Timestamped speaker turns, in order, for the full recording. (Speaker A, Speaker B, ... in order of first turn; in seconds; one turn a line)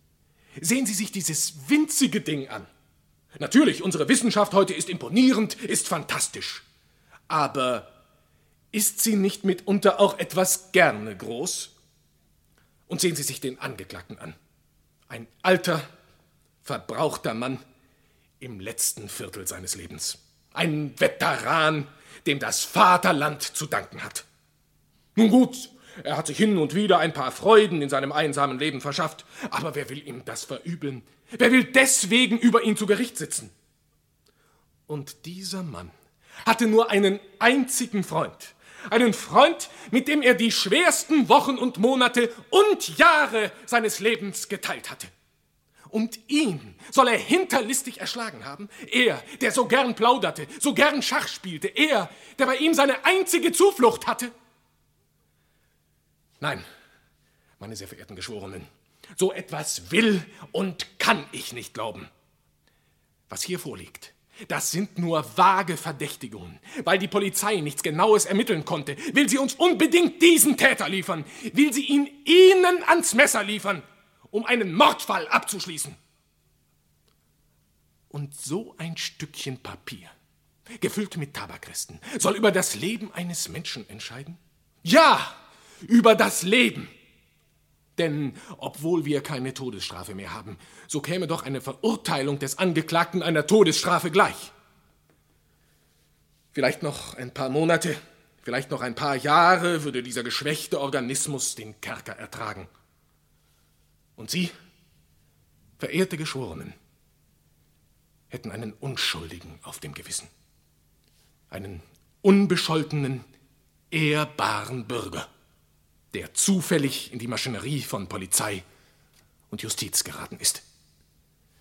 Speaker A: 0.6-2.7
Speaker A: 3.4-6.6
Speaker A: 7.3-7.9
Speaker A: 8.7-11.7
Speaker A: 12.9-14.3
Speaker A: 15.1-15.9
Speaker A: 16.6-17.6
Speaker A: 18.4-24.2
Speaker A: 25.1-33.5
Speaker A: 34.9-35.9
Speaker A: 36.4-45.1
Speaker A: 45.9-54.3
Speaker A: 57.6-62.1
Speaker A: 63.3-76.0
Speaker A: 78.1-80.1
Speaker A: 80.8-86.9
Speaker A: 88.0-94.5
Speaker A: 96.5-102.7
Speaker A: 104.2-104.5
Speaker A: 105.8-106.7
Speaker A: 108.3-110.3
Speaker A: 111.5-113.2
Speaker A: 113.9-115.3
Speaker A: 116.1-118.6
Speaker A: 119.5-120.6